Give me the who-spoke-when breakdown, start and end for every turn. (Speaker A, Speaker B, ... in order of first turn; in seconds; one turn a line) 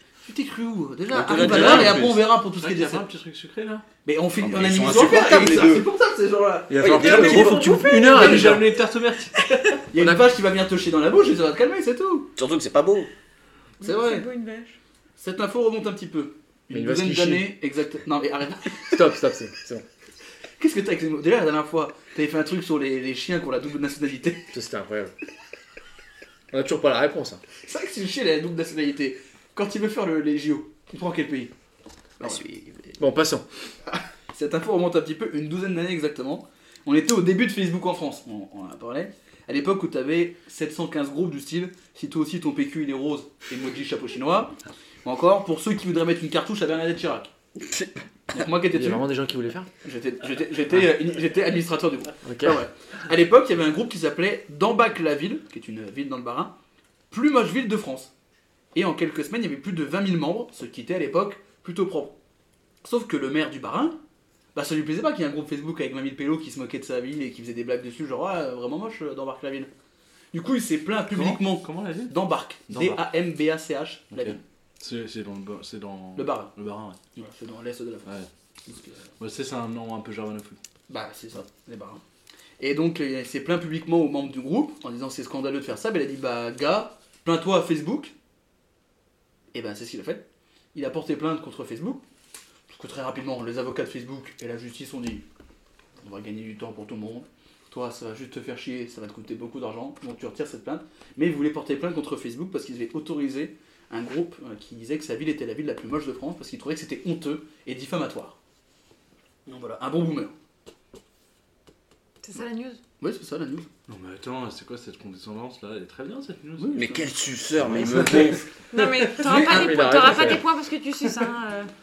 Speaker A: 0.2-3.1
Speaker B: 1.1-2.1
Speaker C: 1.3-3.9
Speaker D: 1.5-1.9
Speaker A: 4.0-8.5
Speaker B: 4.4-5.9
Speaker D: 6.7-8.7
Speaker B: 6.8-7.8
Speaker E: 7.5-8.2
Speaker C: 8.0-9.8
Speaker A: 9.9-12.3
Speaker D: 10.0-10.2
Speaker B: 12.4-13.1
Speaker A: 13.8-14.3
Speaker E: 13.8-14.8
Speaker A: 15.2-19.1
Speaker D: 16.7-17.5
Speaker D: 18.9-19.9
Speaker A: 20.6-24.5
Speaker D: 24.5-25.1
Speaker D: 26.5-27.4
Speaker A: 27.6-31.5
Speaker B: 32.2-33.0
Speaker D: 33.0-33.5
Speaker A: 33.9-47.3
Speaker B: 47.6-48.5
Speaker A: 48.3-49.1
Speaker D: 48.7-49.7
Speaker A: 49.8-56.5
Speaker D: 52.2-52.6
Speaker A: 57.1-58.1
Speaker A: 58.7-62.1
Speaker A: 62.8-64.0
Speaker A: 64.5-69.7
Speaker A: 70.3-74.4
Speaker C: 71.1-72.2
Speaker C: 72.7-73.0
Speaker C: 74.1-77.0
Speaker A: 76.2-76.5
Speaker A: 77.2-78.1
Speaker A: 78.7-79.0
Speaker C: 79.2-80.6
Speaker A: 80.9-82.0
Speaker A: 82.6-88.1
Speaker A: 89.5-92.0
Speaker A: 92.7-95.2
Speaker A: 96.0-108.4
Speaker A: 109.5-110.3
Speaker E: 112.2-112.8
Speaker A: 113.0-113.7
Speaker C: 113.9-116.8
Speaker A: 116.6-117.1
Speaker B: 116.8-118.5
Speaker C: 117.7-118.1
Speaker A: 117.8-118.4
Speaker E: 118.7-121.7
Speaker A: 119.2-119.8
Speaker D: 119.2-120.4